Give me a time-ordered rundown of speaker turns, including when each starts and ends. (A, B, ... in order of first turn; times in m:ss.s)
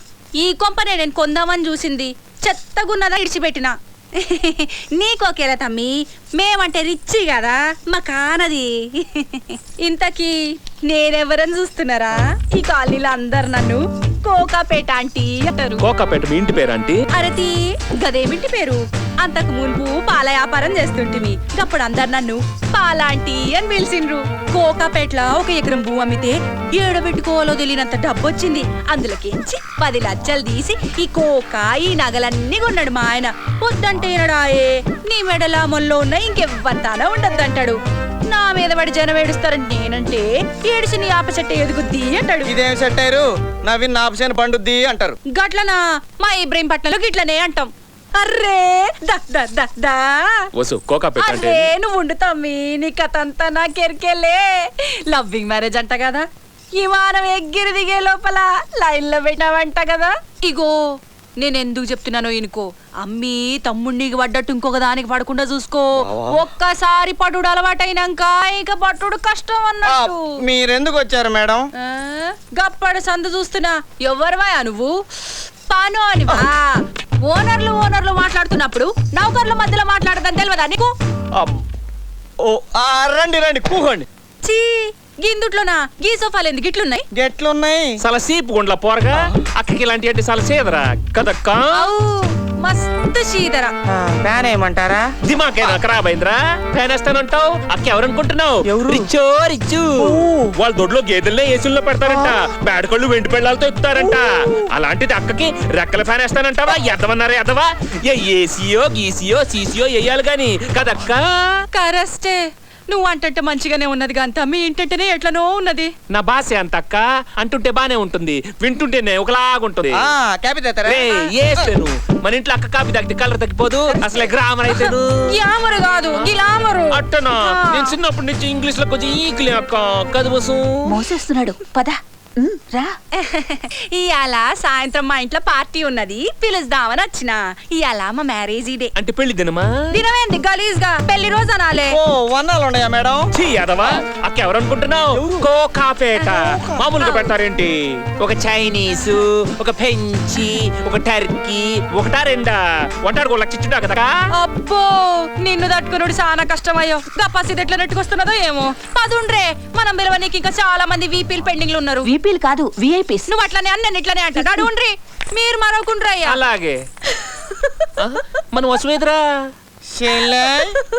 0:00.4-0:15.8 A
0:15.8-0:17.0 B
0:17.1-0:37.8 A
0:38.3-0:42.6 A
0:42.4-0:45.2 C
0:45.3-0:50.5 A
0:50.5-0:51.7 B
0:51.2-0:56.2 A
0:56.8-1:00.8 A
1:01.4-1:10.3 A
1:06.0-1:06.4 C
1:09.8-1:11.6 C
1:11.8-1:14.9 A
1:15.7-1:16.7 A
1:17.2-1:20.9 A
1:22.4-1:24.0 C
1:24.4-1:27.0 A
1:27.1-1:28.0 C
1:28.0-1:31.8 B
1:31.7-1:33.7 A
1:33.9-1:35.1 C
1:35.2-1:51.2 B
1:38.6-1:39.1 C
1:40.0-1:40.5 C
1:44.0-1:44.5 C
1:51.7-1:55.9 A
1:56.1-2:00.0 B
1:59.9-2:01.7 C
2:00.8-2:05.1 B
2:03.9-2:08.0 A
2:06.9-2:11.0 B
2:10.9-2:12.9 D
2:13.2-2:18.9 A
2:19.0-2:19.7 B
2:19.9-2:22.0 A
2:21.9-2:23.3 C
2:23.3-2:34.1 B
2:25.1-2:25.5 C
2:26.4-2:26.7 C
2:26.9-2:27.3 A
2:34.4-2:42.1 A
2:42.0-2:43.3 D
2:43.3-2:46.4 A
2:44.4-2:44.6 D
2:46.2-2:46.8 B
2:48.0-2:49.2 B
2:49.9-2:50.8 C